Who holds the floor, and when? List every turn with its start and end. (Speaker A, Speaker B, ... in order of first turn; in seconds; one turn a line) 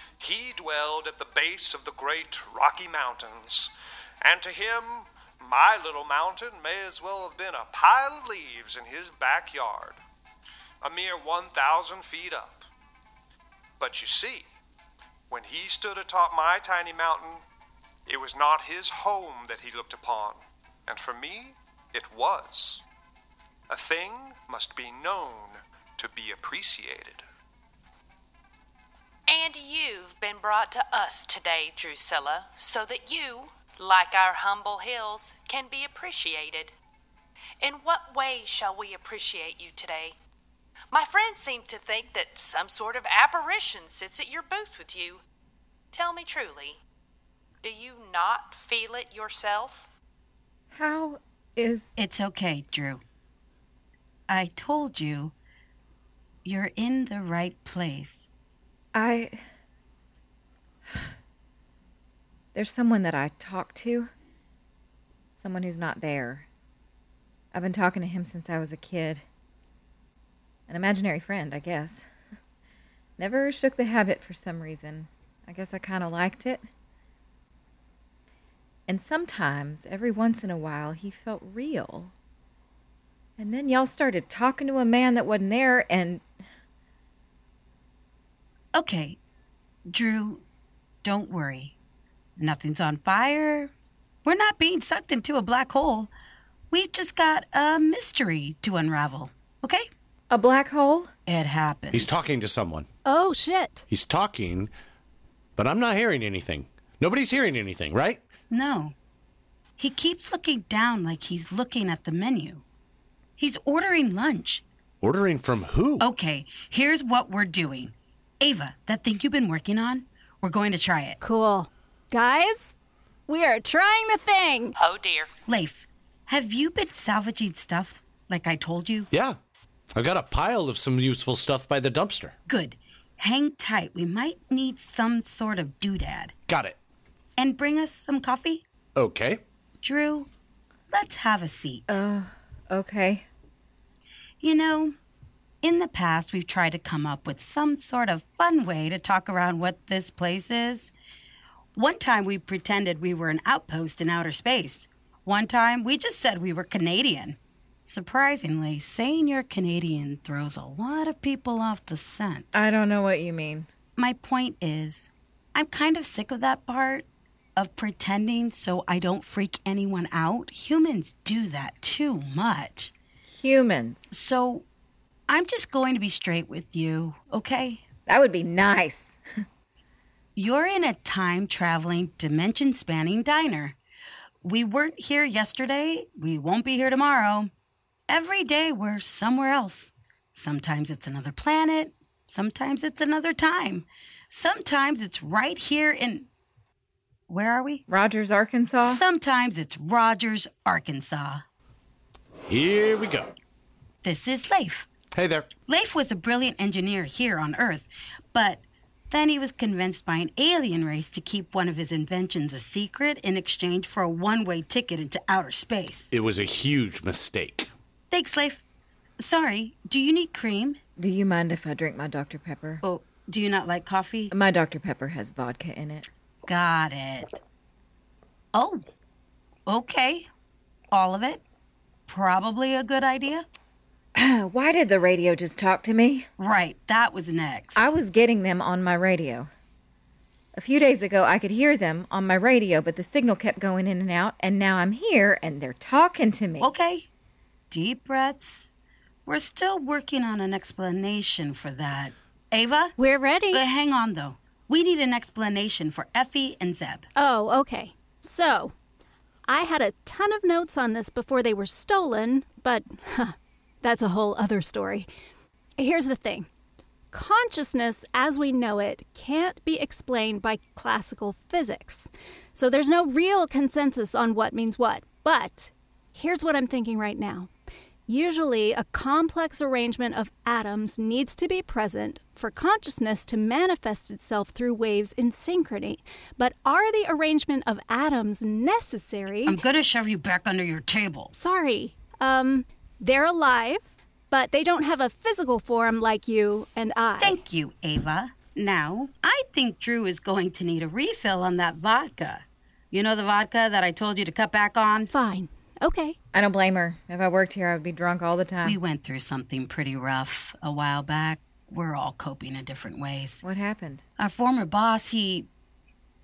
Speaker A: 0.2-10.0
Speaker A: 10.8-12.7
Speaker A: 13.8-14.5
Speaker A: 15.3-17.4
Speaker A: 18.1-22.8
Speaker A: 23.7-27.2
Speaker B: 29.3-36.7
Speaker B: 37.6-40.1
Speaker B: 40.9-45.2
Speaker B: 45.9-46.8
Speaker B: 47.6-49.9
Speaker C: 50.7-51.9
Speaker D: 52.0-53.0
Speaker D: 54.3-55.3
Speaker D: 56.4-58.3
Speaker C: 58.9-59.4
Speaker C: 62.5-64.1
Speaker C: 65.4-66.5
Speaker C: 67.5-69.2
Speaker C: 70.7-72.0
Speaker C: 73.2-76.6
Speaker C: 78.9-82.1
Speaker C: 83.4-86.2
Speaker D: 88.7-89.2
Speaker D: 89.8-90.4
Speaker D: 91.0-91.7
Speaker D: 92.4-93.7
Speaker D: 94.2-96.1
Speaker D: 96.7-99.9
Speaker C: 100.3-101.1
Speaker D: 101.3-102.2
Speaker E: 101.9-102.8
Speaker F: 103.0-103.8
Speaker E: 103.9-104.7
Speaker E: 105.6-108.2
Speaker D: 108.5-108.9
Speaker D: 109.8-112.6
Speaker D: 113.4-114.6
Speaker E: 115.0-116.1
Speaker D: 116.0-121.2
Speaker F: 121.2-122.7
Speaker F: 123.3-124.7
Speaker B: 124.8-125.3
Speaker D: 125.5-129.1
Speaker E: 129.1-129.4
Speaker E: 129.9-132.3
Speaker D: 132.5-136.3
Speaker E: 136.5-136.8
Speaker D: 137.4-138.6
Speaker E: 138.9-139.4
Speaker D: 139.8-140.3
Speaker D: 140.9-141.9
Speaker C: 141.9-143.2
Speaker D: 144.4-144.9
Speaker D: 145.6-150.9
Speaker D: 151.7-162.5
Speaker C: 162.5-163.7
Speaker D: 164.0-172.9
Speaker C: 173.3-174.1
Speaker D: 174.1-174.6
Speaker D: 175.3-177.8
Speaker C: 178.1-179.2
Speaker D: 180.3-183.8
Speaker D: 184.4-187.5
Speaker D: 188.1-196.3
Speaker D: 197.3-197.8
Speaker C: 197.9-199.0
Speaker D: 198.8-201.4
Speaker E: 202.4-203.3
Speaker D: 204.0-204.9
Speaker E: 205.1-205.5
Speaker D: 205.7-216.1
Speaker E: 216.1-217.7
Speaker D: 218.1-218.6
Speaker D: 219.2-220.8
Speaker C: 221.0-222.8
Speaker D: 222.8-224.3
Speaker C: 224.3-226.1
Speaker D: 226.4-227.4
Speaker D: 228.5-228.8
Speaker D: 229.7-230.3
Speaker D: 230.9-231.4
Speaker D: 232.1-233.4
Speaker C: 234.1-236.3
Speaker D: 236.4-237.9
Speaker C: 237.7-239.5
Speaker C: 240.5-246.7
Speaker D: 246.6-247.1
Speaker D: 247.7-248.7
Speaker D: 249.2-252.9
Speaker F: 253.0-253.6
Speaker D: 253.5-257.1
Speaker F: 257.1-258.7
Speaker F: 259.5-265.1
Speaker F: 265.8-266.5
Speaker F: 267.1-277.5
Speaker F: 278.1-289.6
Speaker D: 289.4-291.3
Speaker F: 291.3-297.4
Speaker D: 297.2-305.1
Speaker F: 305.1-306.1
Speaker C: 306.3-308.8
Speaker D: 308.6-313.4
Speaker C: 313.4-314.0
Speaker D: 314.2-315.5